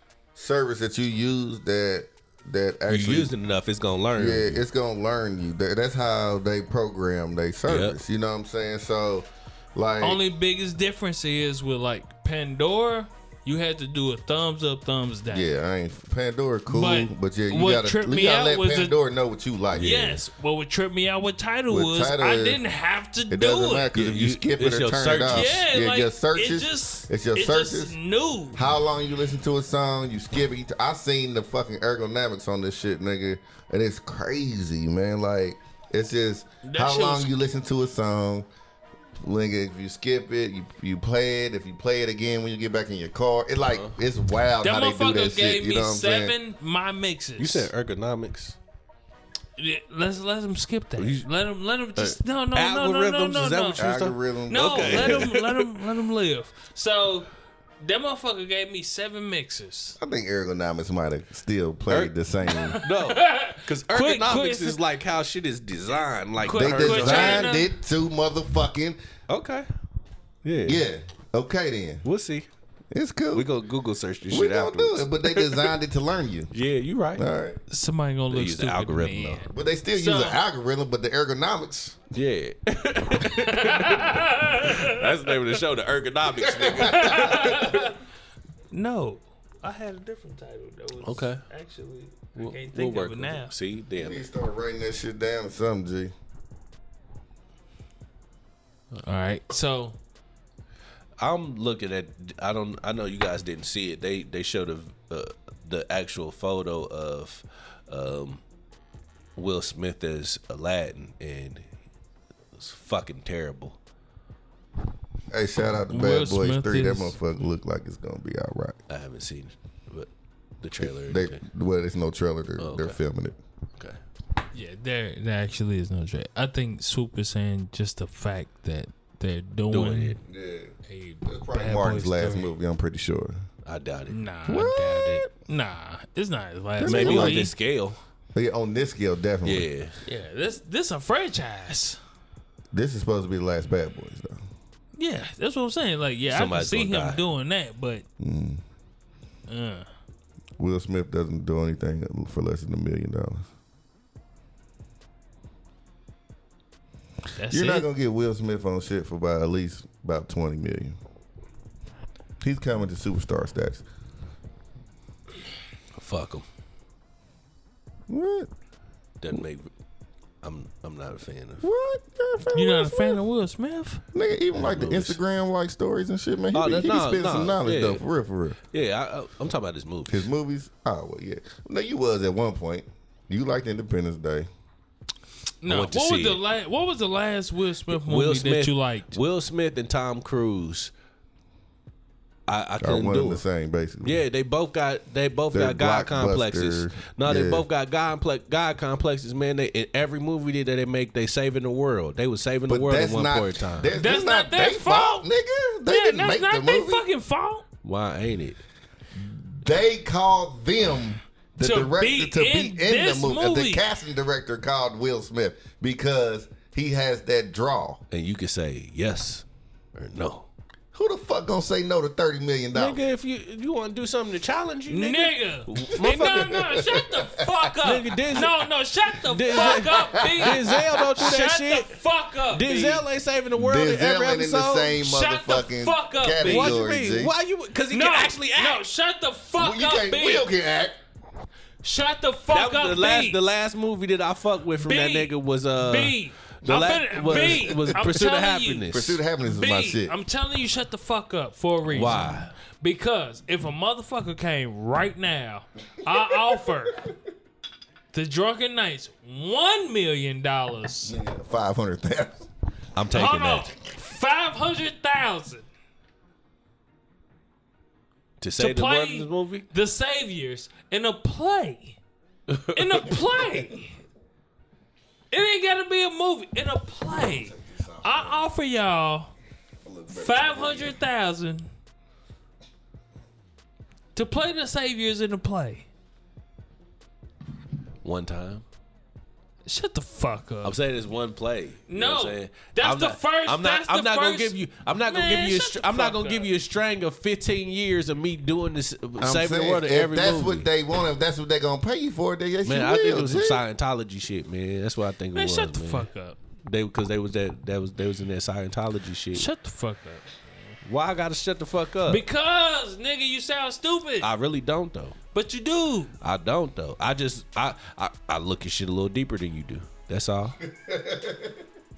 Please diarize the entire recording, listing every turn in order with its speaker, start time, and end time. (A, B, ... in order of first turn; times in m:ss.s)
0:00.3-0:03.3 A
0:02.9-0:04.6 B
0:04.2-0:10.2 A
0:07.7-0:08.0 B
0:10.0-0:15.5 C
0:15.3-0:20.1 A
0:16.7-0:18.9 C
0:19.7-0:20.2 B
0:19.7-0:23.9 C
0:21.7-0:22.6 A
0:23.3-0:28.0 A
0:23.9-0:25.6 B
0:25.3-0:28.6 C
0:28.5-0:38.5 A
0:36.6-0:37.3 C
0:39.2-0:46.3 A
0:43.7-0:44.0 B
0:44.6-0:47.7 C
0:47.4-0:48.6 B
0:49.6-0:53.8 C
0:51.0-0:51.3 B
0:52.5-0:55.7 B
0:53.8-0:55.3 A
0:54.5-0:57.3 C
0:57.8-1:00.0 C
1:00.0-1:02.8 A
1:02.5-1:04.8 C
1:02.7-1:07.5 B
1:06.4-1:07.7 C
1:06.5-1:09.0 A
1:09.3-1:09.7 B
1:10.4-1:10.8 B
1:10.6-1:12.0 A
1:12.0-1:12.5 B
1:12.9-1:13.5 A
1:13.3-1:15.8 B
1:14.3-1:16.5 A
1:16.5-1:17.2 B
1:17.2-1:17.6 A
1:17.7-1:20.4 C
1:18.3-1:19.4 B
1:19.5-1:22.0 A
1:22.1-1:27.9 B
1:23.2-1:25.0 C
1:26.3-1:27.5 A
1:26.8-1:28.0 C
1:28.7-1:33.5 C
1:31.0-1:31.4 B
1:32.4-1:34.2 B
1:34.0-1:36.1 A
1:39.0-1:40.0 C
1:41.2-1:48.4 B
1:49.4-1:51.7 B
1:52.5-1:53.8 B
1:55.3-1:58.8 A
1:55.9-1:57.2 C
1:58.9-2:00.1 B
2:00.6-2:01.4 B
2:00.8-2:03.4 A
2:02.6-2:03.0 B
2:04.5-2:10.2 C
2:09.7-2:10.2 B
2:10.2-2:13.4 A
2:10.8-2:12.5 C
2:13.6-2:14.2 B
2:14.1-2:17.5 C
2:14.5-2:15.3 A
2:16.8-2:17.5 A
2:16.8-2:18.0 B
2:18.3-2:19.7 A
2:19.4-2:20.0 B
2:20.0-2:22.0 C
2:22.7-2:24.5 A
2:25.0-2:28.0 C
2:26.3-2:27.2 B
2:28.2-2:28.6 A
2:29.5-2:29.9 C
2:30.6-2:33.5 A
2:37.3-2:37.9 C
2:37.5-2:41.0 A
2:42.4-2:43.8 A
2:46.0-2:46.4 B
2:48.1-2:48.5 A
2:49.2-2:49.7 B
2:50.4-2:51.7 B
2:51.6-2:53.2 A
2:52.5-2:54.0 C
2:54.1-2:58.6 A
2:54.5-2:55.2 B
2:56.5-2:58.0 B
2:58.7-3:00.3 B
3:00.1-3:04.5 A
3:05.6-3:09.2 C
3:05.7-3:06.4 B
3:07.9-3:10.9 B
3:12.5-3:13.4 B
3:12.8-3:14.2 A
3:14.0-3:23.9 B
3:15.5-3:17.6 A
3:22.7-3:27.0 A
3:24.0-3:25.3 C
3:25.8-3:27.6 C
3:27.8-3:28.6 B
3:29.2-3:38.0 A
3:31.6-3:33.8 C
3:38.1-3:40.5 B
3:40.9-3:43.0 A
3:42.7-3:46.7 B
3:44.9-3:53.0 C
3:46.0-3:47.7 A
3:47.8-3:48.6 B
3:49.2-3:51.9 B
3:49.5-3:51.0 A
3:52.5-3:55.0 B
3:53.5-3:57.3 A
3:55.0-3:56.8 C
3:56.4-3:58.8 B
3:57.9-4:00.5 C
3:59.6-4:01.0 A
4:01.8-4:03.4 C
4:02.5-4:09.2 B
4:04.8-4:08.9 C
4:07.3-4:08.0 A
4:08.9-4:10.1 A
4:09.4-4:17.1 C
4:11.9-4:12.5 B
4:16.1-4:16.4 A
4:18.1-4:21.2 C
4:21.0-4:22.5 A
4:22.9-4:23.7 B
4:23.1-4:25.7 C
4:28.4-4:29.7 B
4:28.6-4:32.0 C
4:32.5-4:33.1 B
4:32.7-4:34.0 C
4:35.3-4:39.3 C
4:37.1-4:38.5 A
4:39.8-4:41.0 A
4:40.1-4:41.7 C
4:44.1-4:45.9 C
4:48.0-4:48.6 B
4:49.6-4:50.8 C
4:50.6-5:00.7 B
4:51.9-4:56.5 C
4:59.2-5:03.6 A
5:02.6-5:06.1 B
5:05.3-5:06.4 C
5:06.6-5:09.5 B
5:09.3-5:10.8 C
5:10.8-5:12.2 B
5:12.1-5:14.3 C
5:14.2-5:15.2 B
5:15.3-5:16.1 C
5:16.2-5:20.6 B
5:20.6-5:21.7 A